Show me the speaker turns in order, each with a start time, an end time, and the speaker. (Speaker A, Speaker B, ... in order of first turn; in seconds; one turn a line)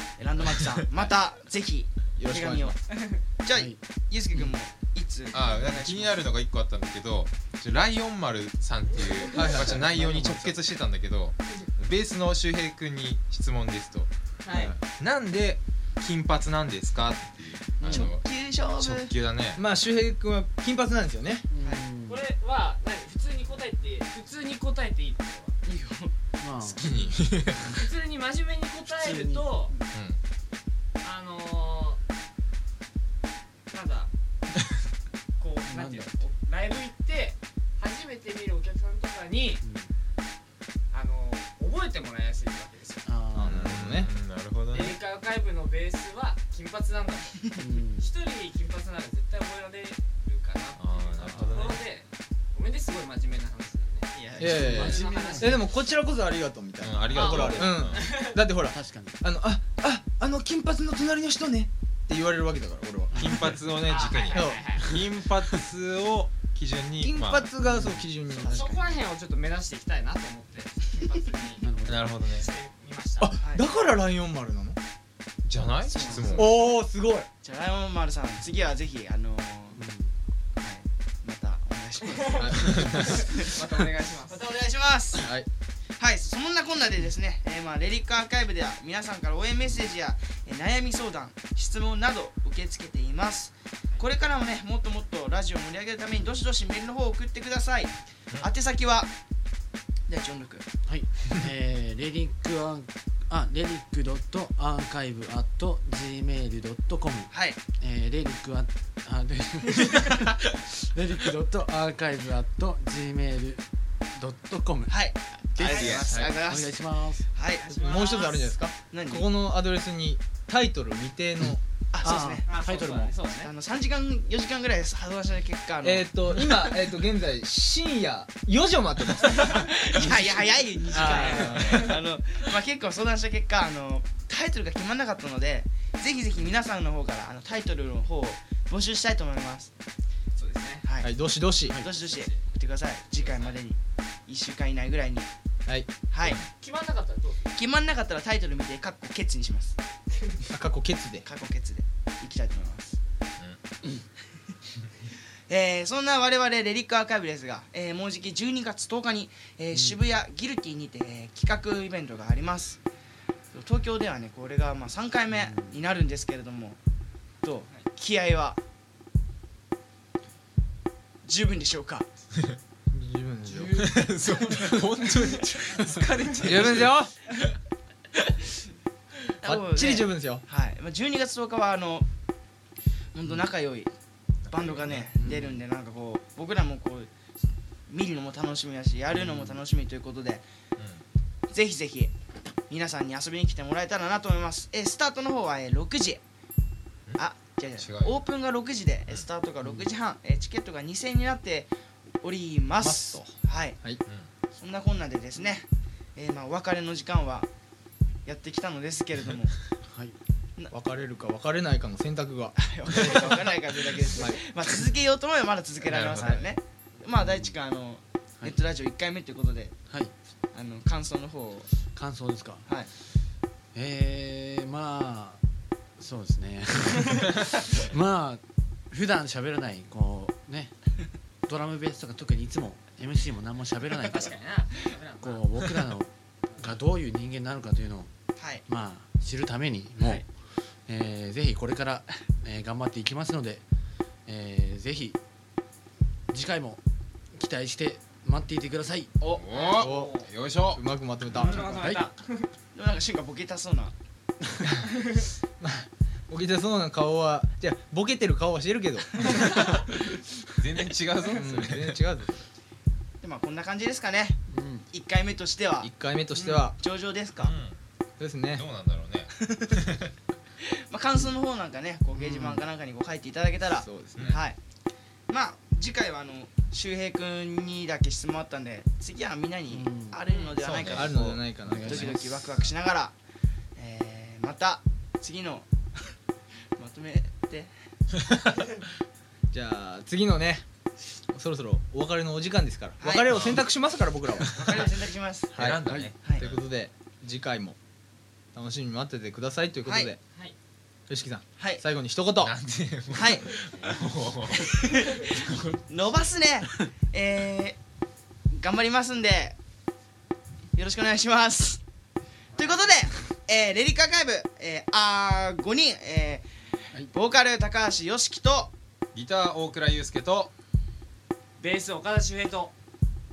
Speaker A: 0.2-2.8
Speaker B: 2.2-2.8
Speaker C: 2.9-3.2
Speaker A: 3.4-6.2
Speaker D: 3.5-3.8
Speaker E: 5.3-19.6
Speaker B: 9.3-9.8
Speaker D: 9.4-10.6
Speaker C: 14.4-14.7
Speaker A: 17.8-19.1
Speaker B: 19.6-21.5
Speaker D: 21.5-22.2
Speaker C: 22.1-25.6
Speaker A: 25.7-26.1
Speaker D: 26.4-26.9
Speaker E: 26.6-27.8
Speaker C: 27.7-29.8
Speaker D: 29.0-29.7
Speaker E: 29.9-30.2
Speaker C: 31.0-32.0
Speaker C: 33.7-34.1
Speaker C: 35.4-39.6
Speaker D: 35.7-36.2
Speaker D: 39.6-39.9
Speaker C: 40.9-43.1
Speaker D: 43.0-43.7
Speaker B: 43.3-44.1
Speaker E: 43.4-45.0
Speaker C: 44.7-55.7
Speaker D: 47.6-48.1
Speaker E: 50.8-51.9
Speaker D: 51.2-51.6
Speaker B: 54.4-63.4
Speaker D: 54.4-55.6
Speaker E: 56.8-58.1
Speaker C: 57.1-58.4
Speaker D: 58.6-59.2
Speaker D: 63.1-63.5
Speaker E: 63.1-67.5
Speaker C: 63.9-64.9
Speaker B: 64.3-64.7
Speaker B: 67.0-69.0
Speaker D: 67.6-68.0
Speaker C: 68.4-71.7
Speaker A: 68.4-68.7
Speaker D: 71.6-72.1
Speaker E: 71.8-72.5
Speaker C: 72.3-73.3
Speaker B: 73.2-74.8
Speaker A: 73.4-73.8
Speaker E: 75.5-76.5
Speaker A: 75.9-76.7
Speaker B: 76.3-77.3
Speaker A: 77.4-79.8
Speaker D: 79.7-80.2
Speaker A: 80.6-83.7
Speaker B: 82.3-83.0
Speaker C: 82.5-84.5
Speaker E: 82.6-83.2
Speaker A: 84.3-85.3
Speaker B: 85.2-85.5
Speaker A: 86.0-99.1
Speaker A: 100.1-100.7
Speaker D: 100.9-113.6
Speaker A: 107.3-107.6
Speaker D: 114.2-117.2
Speaker A: 114.9-116.8
Speaker E: 115.6-116.3
Speaker A: 117.3-117.7
Speaker C: 117.5-118.5
Speaker B: 117.7-121.6
Speaker A: 118.9-119.3
Speaker A: 121.9-122.5
Speaker D: 122.0-123.2
Speaker C: 122.5-123.5
Speaker A: 123.4-126.1
Speaker B: 125.8-131.9
Speaker A: 129.4-139.7
Speaker C: 130.9-132.0
Speaker C: 140.4-140.8
Speaker B: 141.0-141.8
Speaker A: 141.8-145.3
Speaker C: 141.8-142.4
Speaker C: 143.1-143.6
Speaker A: 146.1-146.4
Speaker C: 146.6-147.4
Speaker A: 147.5-149.8
Speaker B: 150.5-151.3
Speaker A: 151.2-153.0
Speaker A: 155.5-162.8
Speaker D: 159.7-160.0
Speaker A: 163.5-166.8
Speaker D: 165.3-165.8
Speaker A: 167.4-168.6
Speaker A: 171.2-172.1
Speaker B: 172.9-173.9
Speaker E: 173.7-177.0
Speaker B: 176.4-177.1
Speaker A: 179.4-182.1
Speaker B: 179.4-180.4
Speaker A: 183.1-183.9
Speaker E: 184.4-185.1
Speaker A: 184.5-187.1
Speaker D: 185.2-185.6
Speaker A: 187.9-190.5
Speaker D: 189.1-189.6
Speaker E: 190.8-191.0
Speaker A: 191.5-192.1
Speaker A: 192.7-196.2
Speaker A: 197.2-203.8
Speaker E: 197.8-198.2
Speaker D: 199.6-199.9
Speaker B: 202.8-204.0
Speaker A: 204.6-207.5
Speaker A: 208.2-209.6
Speaker D: 209.9-210.2
Speaker B: 210.7-213.4
Speaker A: 212.6-219.7
Speaker E: 215.9-216.4
Speaker D: 217.2-217.6
Speaker A: 220.5-221.7
Speaker D: 221.9-222.7
Speaker D: 223.7-225.4
Speaker D: 226.0-230.7
Speaker D: 231.5-234.4
Speaker C: 234.0-235.5
Speaker D: 235.2-238.1
Speaker A: 238.4-238.6
Speaker D: 238.7-240.3
Speaker D: 240.9-243.6
Speaker D: 244.3-245.2
Speaker D: 246.3-246.8
Speaker D: 247.3-249.1
Speaker E: 249.2-250.8
Speaker C: 249.5-250.3
Speaker B: 249.8-250.1
Speaker B: 250.7-251.7
Speaker D: 251.3-252.1
Speaker C: 251.4-252.5
Speaker A: 252.7-253.9
Speaker B: 255.6-259.4
Speaker E: 259.5-259.8
Speaker E: 260.6-262.0
Speaker B: 261.3-262.5
Speaker A: 263.2-265.9
Speaker D: 264.5-264.9
Speaker B: 265.8-266.8
Speaker C: 266.4-266.6
Speaker A: 266.4-267.6
Speaker E: 267.4-267.8
Speaker B: 268.2-268.6
Speaker E: 268.5-270.1
Speaker A: 269.4-269.7
Speaker A: 270.6-274.6
Speaker D: 272.1-272.6
Speaker B: 273.7-274.4
Speaker E: 274.1-274.4
Speaker A: 275.3-283.1
Speaker D: 279.7-280.2
Speaker E: 280.5-281.2
Speaker B: 280.8-282.3
Speaker D: 281.6-282.2
Speaker A: 283.8-285.7
Speaker A: 286.8-287.7
Speaker B: 289.5-290.6
Speaker B: 291.3-294.8
Speaker A: 293.0-293.4
Speaker E: 293.3-293.6
Speaker A: 294.5-295.5
Speaker B: 295.5-297.8
Speaker E: 295.6-296.6
Speaker D: 295.9-296.1
Speaker B: 298.5-300.2
Speaker A: 299.9-300.1
Speaker B: 301.1-302.5
Speaker A: 301.6-301.8
Speaker E: 302.4-305.8
Speaker A: 303.1-303.5
Speaker A: 304.6-307.8
Speaker A: 308.5-309.6
Speaker A: 310.8-311.8
Speaker C: 312.5-312.9
Speaker A: 312.6-316.5
Speaker A: 317.1-318.7
Speaker E: 319.1-320.5
Speaker C: 321.6-322.7